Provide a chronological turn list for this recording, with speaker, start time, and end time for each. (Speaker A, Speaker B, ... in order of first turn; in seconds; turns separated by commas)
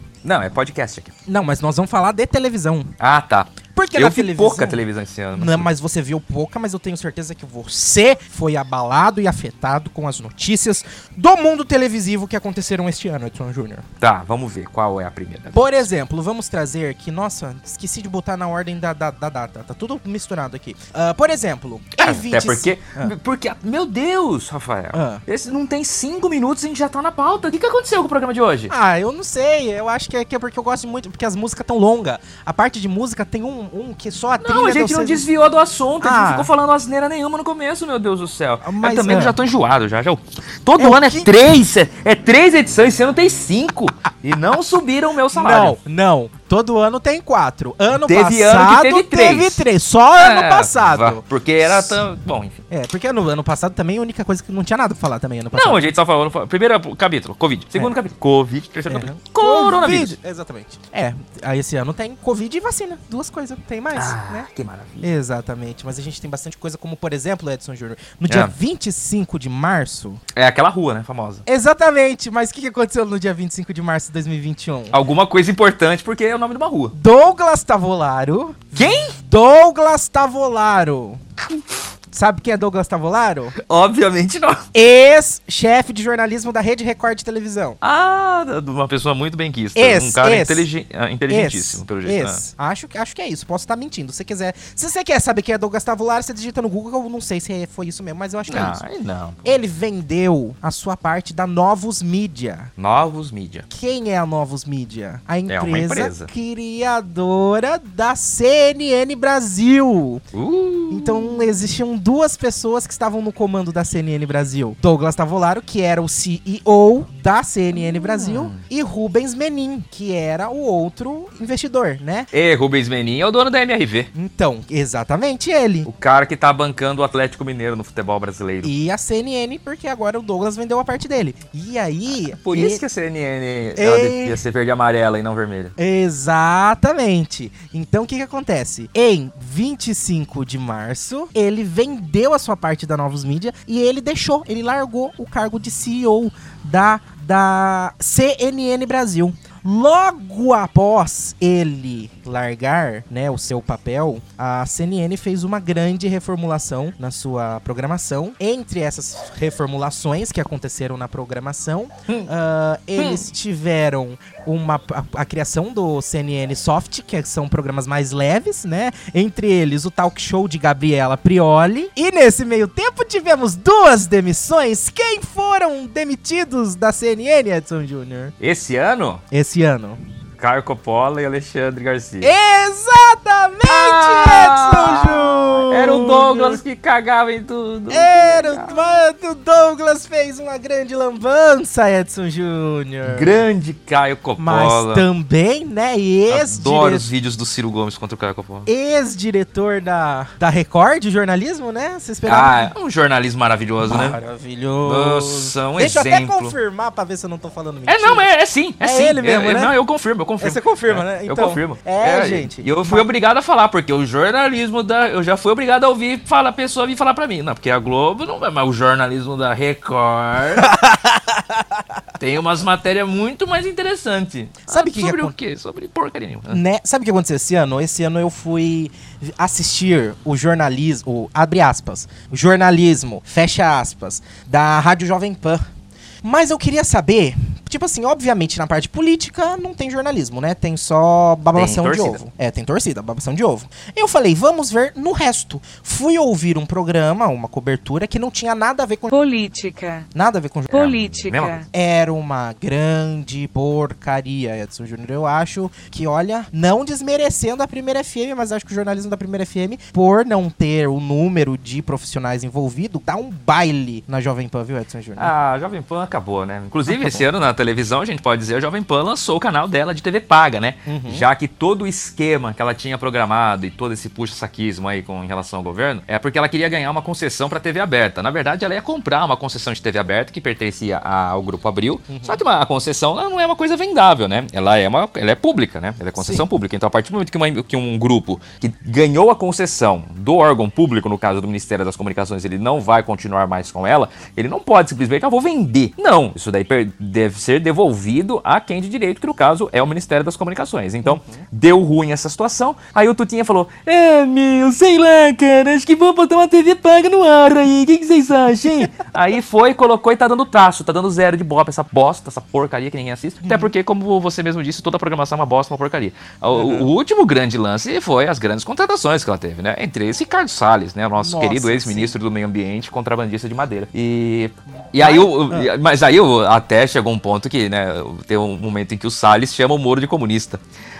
Speaker A: 0.2-1.1, Speaker B: 1.3-2.9, Speaker A: 3.0-5.7, Speaker B: 3.8-4.8, Speaker B: 5.3-13.8, Speaker A: 14.0-15.9, Speaker B: 15.5-23.1, Speaker A: 22.0-28.7, Speaker B: 24.9-25.2, Speaker B: 28.7-35.3, Speaker A: 34.4-45.8, Speaker B: 36.0-36.5, Speaker B: 38.6-39.4, Speaker B: 40.8-41.3, Speaker B: 45.3-52.0, Speaker A: 48.0-49.6, Speaker A: 50.2-52.6, Speaker B: 52.7-55.9, Speaker A: 55.5-60.2, Speaker B: 58.9-64.5, Speaker A: 63.9-65.1, Speaker B: 65.0-70.2, Speaker A: 68.3-68.5, Speaker A: 70.3-71.4, Speaker B: 71.5-75.0, Speaker A: 74.9-77.0, Speaker B: 77.0-81.2, Speaker A: 78.7-79.2, Speaker A: 81.4-81.9, Speaker B: 82.1-83.5, Speaker A: 83.5-84.7, Speaker B: 84.7-87.8, Speaker A: 87.8-92.4, Speaker B: 89.8-90.7, Speaker B: 91.3-98.8, Speaker A: 98.5-99.5, Speaker B: 99.4-102.7, Speaker A: 102.8-103.7, Speaker B: 103.7-110.2, Speaker A: 105.5-106.3, Speaker A: 110.3-111.6, Speaker B: 110.9-122.3, Speaker A: 117.7-118.6, Speaker A: 122.3-124.1, Speaker B: 124.2-125.9, Speaker A: 125.9-128.7, Speaker B: 128.6-132.8, Speaker A: 132.3-135.7, Speaker B: 133.8-134.4, Speaker B: 135.8-178.3, Speaker A: 163.0-163.3, Speaker A: 178.4-179.2, Speaker B: 179.3-180.0, Speaker A: 180.4-182.3, Speaker B: 182.2-186.6, Speaker A: 183.7-188.9, Speaker B: 187.9-193.4, Speaker A: 193.1-195.1, Speaker B: 194.4-197.1, Speaker A: 196.3-198.7, Speaker B: 198.7-202.7, Speaker A: 202.3-204.2, Speaker B: 203.8-209.8, Speaker A: 204.8-206.6, Speaker A: 207.9-220.8, Speaker B: 210.4-213.1, Speaker B: 220.7-221.1, Speaker A: 222.2-226.6, Speaker B: 224.7-225.4, Speaker B: 226.5-235.7, Speaker B: 236.2-249.1, Speaker A: 241.6-242.2, Speaker C: 249.1-250.1, Speaker B: 250.1-250.7, Speaker C: 250.7-251.7, Speaker A: 250.7-251.6, Speaker B: 251.7-265.3, Speaker A: 265.2-330.6, Speaker B: 266.9-267.3, Speaker B: 270.9-271.2, Speaker B: 282.1-282.4, Speaker B: 286.2-286.5, Speaker B: 301.0-301.5, Speaker B: 313.4-313.7, Speaker B: 316.5-316.9, Speaker B: 321.2-322.1, Speaker B: 325.0-325.7